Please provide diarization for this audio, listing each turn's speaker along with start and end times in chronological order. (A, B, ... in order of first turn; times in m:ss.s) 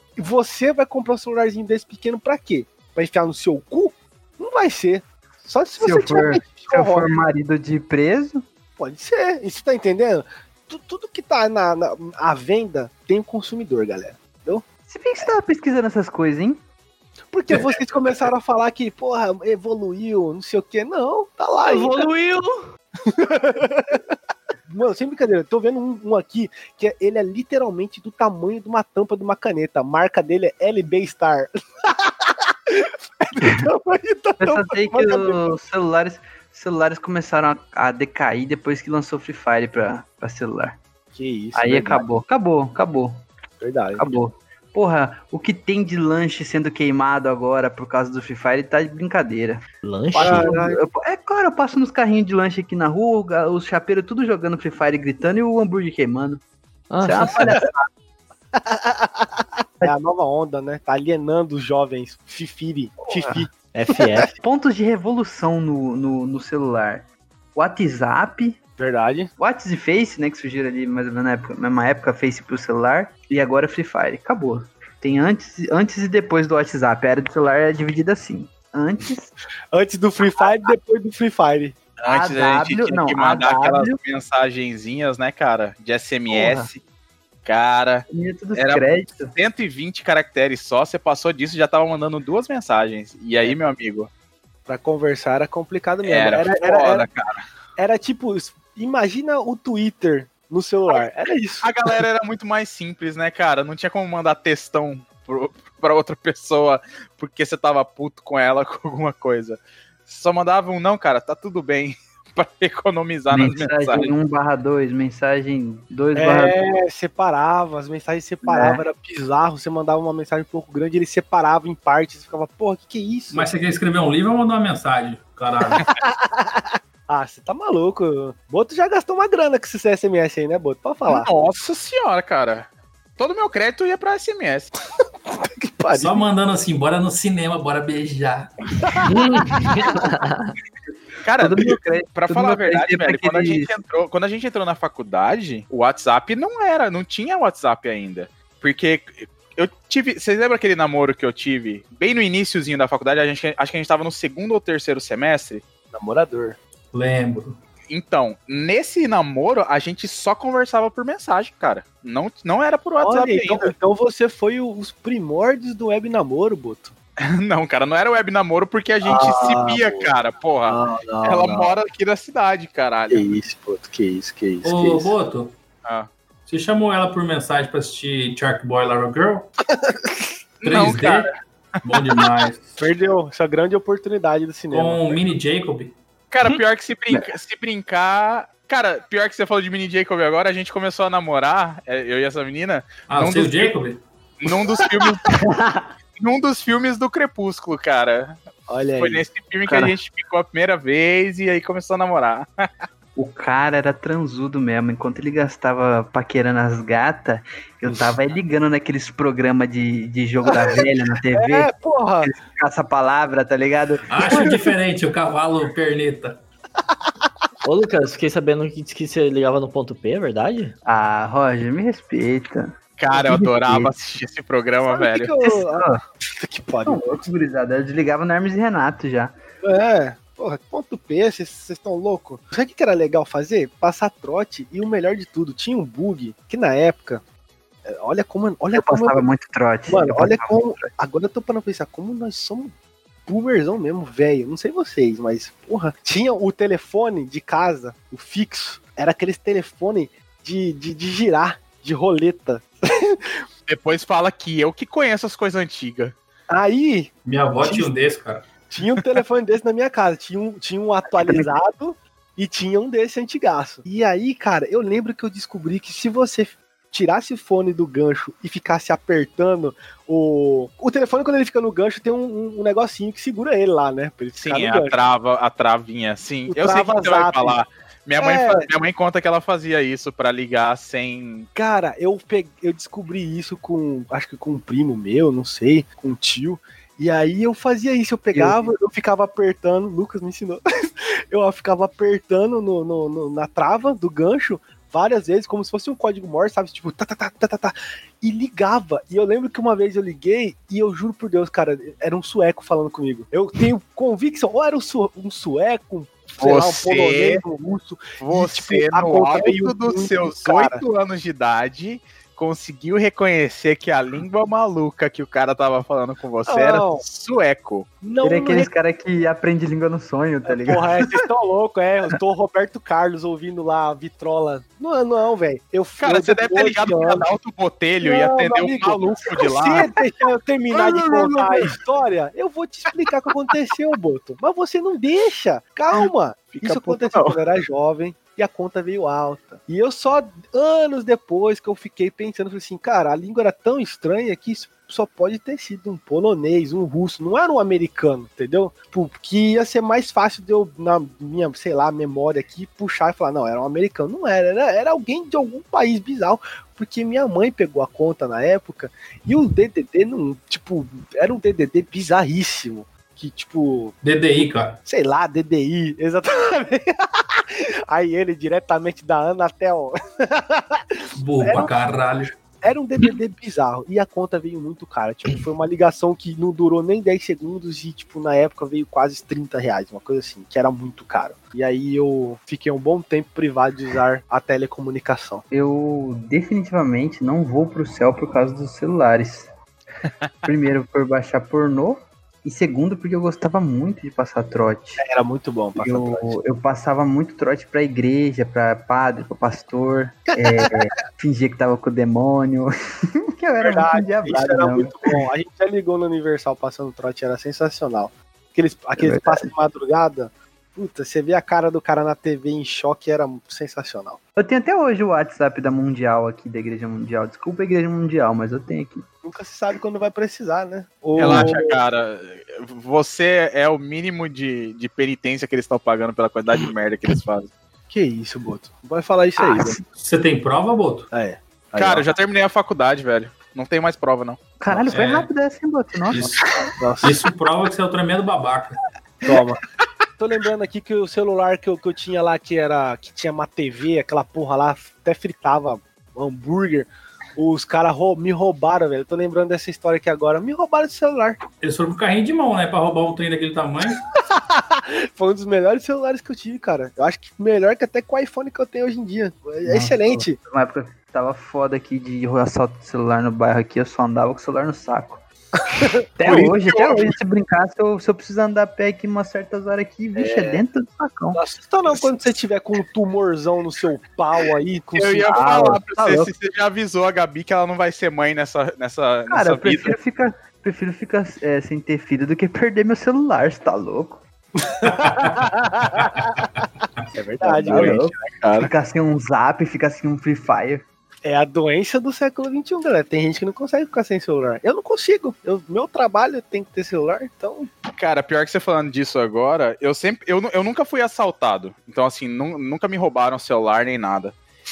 0:00.2-0:07.1 A
0:05.8-0:08.4 B
0:08.8-0:14.6 A
0:14.9-0:16.6 B
0:17.3-0:22.1 A
0:21.6-0:22.6 C
0:23.1-0:24.0 A
0:24.7-0:35.5 A
0:34.4-0:40.8 B
0:41.2-0:42.1 A
0:41.5-0:43.2 B
0:43.6-0:44.2 A
0:44.0-0:56.4 B
0:49.8-0:50.6 C
0:50.2-0:50.8 A
0:56.9-0:57.6 C
0:57.0-0:57.9 B
0:58.6-0:59.2 A
0:59.8-1:04.2 A
1:03.1-1:03.5 B
1:03.7-1:04.3 C
1:04.4-1:08.6 B
1:08.8-1:09.3 A
1:09.4-1:19.3 B
1:19.7-1:21.8 A
1:22.0-1:26.8 D
1:22.1-1:24.0 B
1:26.3-1:26.7 B
1:27.4-1:34.1 D
1:28.1-1:29.3 B
1:34.7-1:37.1 A
1:36.0-1:37.4 D
1:37.8-1:41.8 A
1:41.6-1:54.1 D
1:53.3-1:56.6 B
1:56.2-2:03.5 A
1:58.4-1:58.8 B
2:03.3-2:05.9 E
2:05.8-2:11.3 A
2:11.1-2:14.7 D
2:15.3-2:16.3 A
2:16.0-2:18.5 E
2:18.9-2:19.8 A
2:19.1-2:20.5 C
2:21.2-2:35.6 D
2:21.4-2:23.8 B
2:35.9-2:36.6 A
2:36.9-2:37.6 E
2:37.9-2:43.7 D
2:43.0-2:46.9 A
2:47.2-2:53.3 D
2:49.0-2:50.2 A
2:50.7-2:51.6 A
2:53.1-2:55.1 A
2:54.6-2:55.5 E
2:56.5-2:59.5 E
2:59.8-3:00.1 A
3:00.6-3:01.3 D
3:00.6-3:01.3 E
3:01.8-3:02.8 E
3:02.8-3:05.2 A
3:04.7-3:06.0 E
3:06.3-3:13.8 D
3:13.1-3:14.0 E
3:14.4-3:15.3 D
3:15.3-3:15.9 B
3:16.2-3:18.4 D
3:18.7-3:19.2 A
3:19.0-3:22.7 D
3:19.6-3:20.0 B
3:23.2-3:34.1 B
3:30.5-3:32.3 A
3:34.1-3:36.4 E
3:37.6-3:40.7 C
3:40.8-3:43.9 B
3:43.0-3:45.3 D
3:44.9-3:47.3 A
3:45.4-3:46.0 B
3:46.8-3:49.4 B
3:49.6-3:57.2 A
3:57.9-3:59.2 A
3:58.7-4:00.9 B
3:59.9-4:02.7 A
4:03.3-4:13.4 A
4:13.7-4:16.2 D
4:16.5-4:17.9 A
4:17.2-4:18.5 E
4:18.7-4:35.0 A
4:21.1-4:21.6 B
4:34.4-4:41.5 D
4:36.5-4:37.6 A
4:38.2-4:38.7 A
4:41.6-5:10.8 A
4:48.3-4:48.6 B
5:06.4-5:07.4 D
5:08.2-5:17.9 D
5:16.5-5:17.0 A
5:18.0-5:18.7 A
5:18.2-5:21.2 B
5:20.5-5:27.4 A
5:26.0-5:29.9 D
5:28.0-6:04.0 A
5:30.7-5:31.7 B
5:36.6-5:37.4 D
6:04.0-6:04.8 E
6:04.8-6:12.0 A
6:11.2-6:12.3 E
6:12.6-6:25.4 A
6:25.5-6:29.5 B
6:30.4-6:35.0 B
6:35.0-6:36.4 A
6:35.8-6:42.7 B
6:40.3-6:40.7 A
6:43.4-6:45.1 B
6:43.6-6:54.2 A
6:49.0-6:49.5 B
6:54.4-6:59.1 B
6:59.2-7:01.8 A
7:01.2-7:07.5 D
7:01.2-7:01.5 B
7:07.9-7:09.8 A
7:09.4-7:09.8 B
7:10.0-7:11.1 E
7:11.1-7:12.1 A
7:11.8-7:14.4 D
7:14.6-7:16.2 B
7:14.9-7:15.3 E
7:16.1-7:16.4 E
7:16.2-7:17.2 A
7:17.0-7:18.8 E
7:19.2-7:19.6 A
7:20.2-7:31.4 A
7:31.6-7:34.0 E
7:34.2-7:40.4 A
7:39.6-7:45.2 B
7:46.2-7:51.4 B
7:46.2-7:47.1 D
7:51.3-7:55.5 A
7:55.0-8:00.0 D
7:55.3-7:56.3 B
7:59.3-8:04.2 B
8:04.6-8:06.3 A
8:07.1-8:08.1 A
8:07.4-8:10.8 B
8:07.7-8:08.7 D
8:11.2-8:17.7 A
8:18.0-8:24.4 D